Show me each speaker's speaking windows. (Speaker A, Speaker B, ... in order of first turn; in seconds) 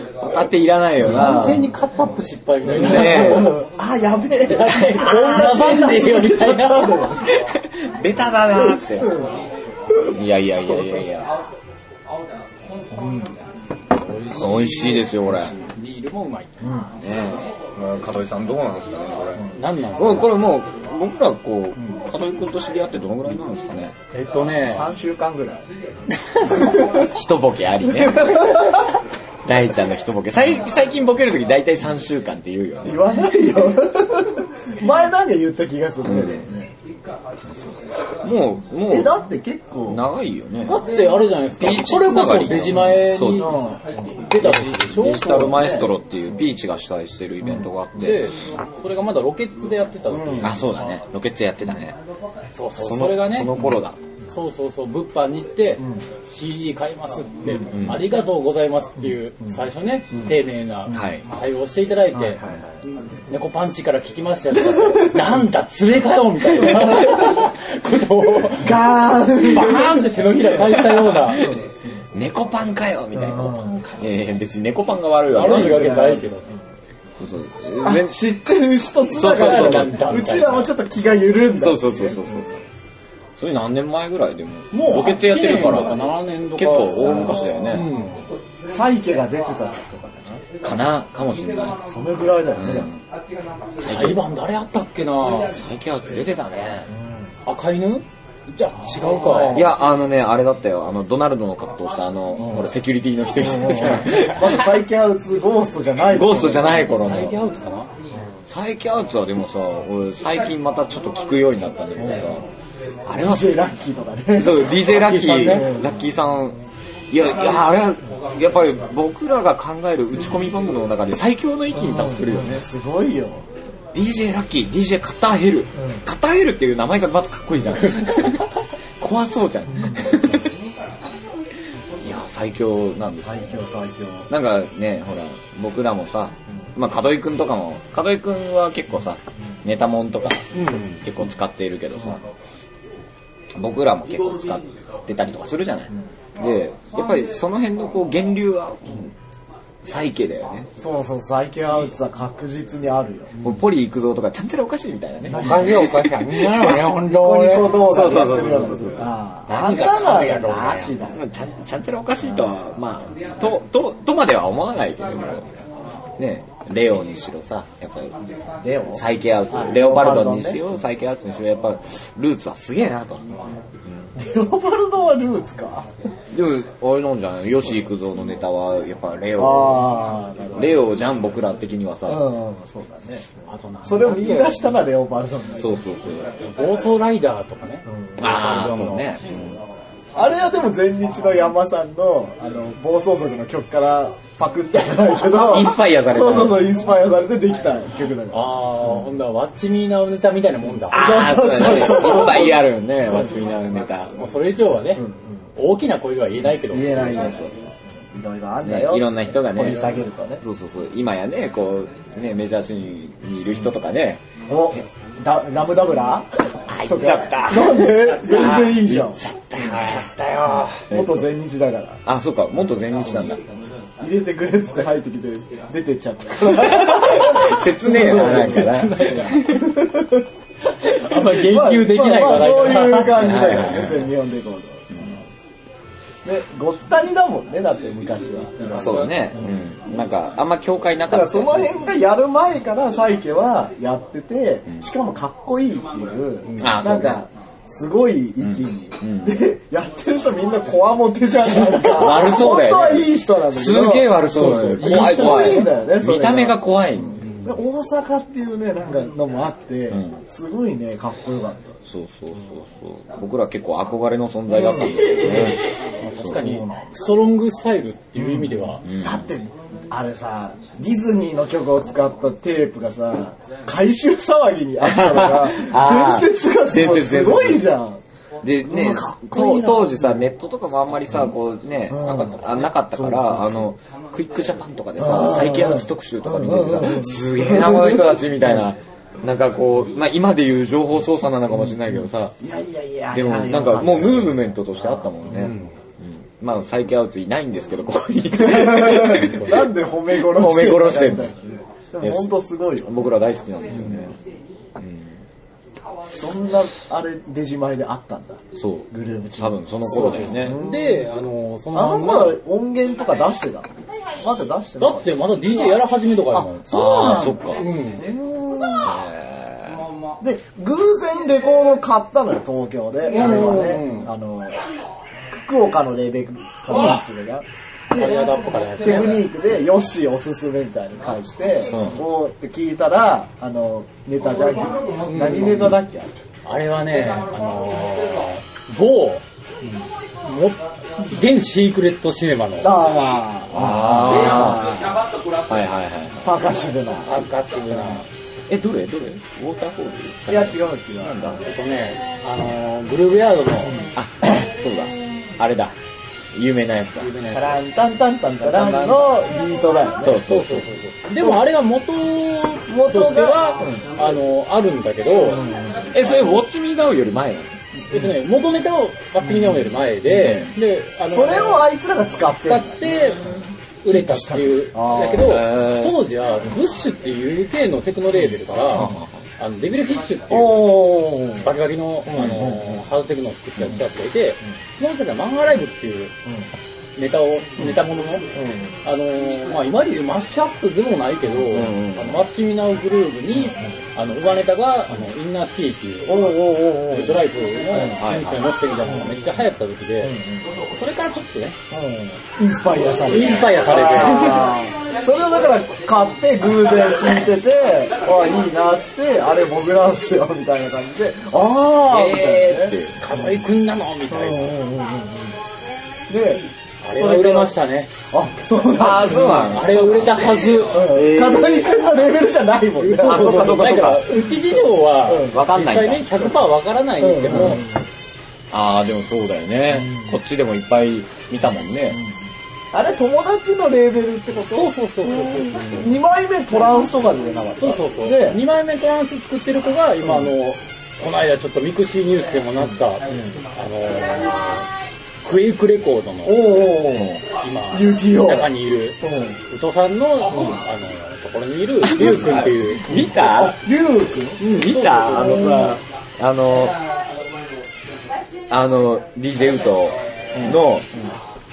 Speaker A: 0.2-1.7, 2.7-3.6, 4.7-5.9, 7.2-9.2, 10.1-11.3, 14.3-15.6, 17.0-23.9, 26.8-28.8, 29.4-33.2, 36.0-36.5, 37.5-39.1, 39.9-40.8, 41.6-43.5, 44.4-48.2, 50.4-52.0, 52.8-54.0, 57.6-58.0, 60.9-61.2, 62.4-62.8, 70.6-76.0, 77.2-78.2, 79.1-80.1, 81.6-82.6, 83.4-86.0, 86.5-87.9, 90.6-91.8, 92.5-93.0, 93.8-94.2, 95.5-96.9, 99.4-104.7, 106.1-107.3, 108.5-112.4, 113.0-113.6, 114.3-116.6, 117.1-122.7, 123.9-128.5, 129.0-130.5, 132.0-133.5, 134.3-142.2, 143.5-149.1, 149.8-150.7, 153.4-156.7, 157.8-159.1, 161.1-165.5, 166.2-168.1, 168.9-173.3, 176.3-180.0, 180.5-182.2, 185.6-186.3, 188.2-189.6, 195.4-196.7, 200.9-204.1, 207.1-207.6, 208.6-214.2, 216.7-221.3, 222.0-223.4, 226.5-229.7, 233.1-234.1, 238.7-241.7, 246.6-247.2, 248.4-249.4, 251.8-257.2, 259.9-260.2, 261.9-266.6, 268.8-269.3, 274.8-277.7, 278.4-292.4, 293.1-301.3, 302.0-302.3, 302.8-304.2, 304.8-305.2, 308.5-310.6, 316.6-317.6, 318.8-319.8, 331.7-332.0, 343.5-344.8, 345.5-346.3, 348.5-351.4, 353.9-355.7, 356.3-357.2, 358.4-359.3, 360.0-360.7, 365.9-367.5, 370.2-370.5, 375.2-376.0, 378.7-379.1, 391.5-392.2, 397.8-398.4, 411.8-413.0, 418.7-421.8, 423.0-424.1, 425.2-426.3, 428.5-432.0, 446.9-447.2, 451.8-453.6, 454.4-456.8, 458.5-460.9
Speaker B: 1.0-3.6, 4.4-7.1, 13.9-16.5, 19.5-20.4, 24.1-24.9, 40.6-43.6, 44.2-45.8, 47.9-50.9, 52.5-53.5, 54.3-71.5, 73.4-74.1, 75.3-76.5, 79.2-80.7, 84.7-88.2, 93.8-95.6, 97.5-99.7, 103.9-104.2, 106.8-107.9, 114.8-115.7, 140.5-141.0, 155.3-158.0, 159.5-161.0, 183.5-184.7, 186.4-189.2, 198.3-201.0, 201.8-202.3, 204.2-205.0, 205.6-207.4, 218.3-218.7, 219.6-220.8, 228.4-229.4, 230.8-233.6, 238.7-239.3, 246.5-246.8, 254.3-255.7, 265.1-268.8, 282.0-282.6, 295.3-295.7, 299.2-299.7, 309.9-312.4, 314.8-318.1, 323.1-324.1, 326.7-327.0, 327.9-329.3, 335.1-335.8, 336.4-339.2, 340.2-342.8, 343.6-344.5, 347.0-348.1, 351.4-353.9, 357.0-357.6, 360.1-365.4, 367.9-371.6, 372.3-386.1, 386.9-388.3, 388.8-400.2, 400.7-401.6, 403.0-404.6, 413.0-414.6, 416.8-417.9, 419.1-420.9, 422.8-427.6, 434.4-436.0, 437.6-444.7, 445.2-446.7, 447.3-453.1, 454.4-455.8
Speaker C: 1.1-1.5, 2.7-7.3, 8.6-9.3, 12.9-13.4, 16.6-16.9, 24.6-25.7, 26.5-27.1, 28.0-28.8, 32.8-36.7, 38.9-40.0, 43.3-44.2, 45.3-45.9, 47.4-47.7, 50.1-50.6, 62.1-62.4, 64.6-65.3, 68.6-70.4, 73.1-73.8, 75.4-76.6, 77.8-82.5, 87.0-87.3, 88.7-90.4, 91.8-92.9, 96.9-97.3, 98.9-99.7, 102.4-102.7, 103.3-107.1, 113.1-114.8, 115.3-115.9, 121.7-123.5, 125.8-126.0, 129.7-130.2, 133.2-134.3, 150.8-153.5, 155.2-156.1, 156.7-161.3, 162.2-162.5, 168.6-170.6, 174.1-175.9, 179.3-180.9, 182.1-185.8, 187.8-188.3, 190.1-199.0, 200.9-202.6, 204.9-205.4, 206.6-207.5, 208.1-210.4, 214.4-219.2, 220.9-222.0, 224.0-230.2, 231.1-235.2, 236.2-239.5, 241.1-261.8, 264.5-265.6, 266.2-266.9, 268.1-278.0, 278.6-280.2, 281.9-283.7, 285.0-288.6, 292.4-295.3, 298.3-302.9, 303.7-304.1, 306.1-311.1, 311.7-315.1, 316.3-317.3, 317.9-318.9, 320.2-324.6, 325.3-336.1, 342.6-345.0, 346.2-348.1, 350.3-351.4, 357.2-360.2, 362.7-363.9, 365.1-365.9, 369.2-369.7, 371.1-372.9, 373.8-375.4, 380.3-381.5, 382.0-382.8, 388.3-388.8, 396.1-398.0, 398.8-399.2, 400.0-400.6, 401.7-413.4, 414.1-415.4, 416.1-417.6, 418.1-419.7, 420.6-423.5, 425.0-425.4, 427.0-427.9, 429.7-430.2, 431.9-438.4, 440.0-440.3, 443.1-443.4, 446.2-449.4, 450.3-450.6, 452.9-454.4, 455.1-455.8, 460.3-460.6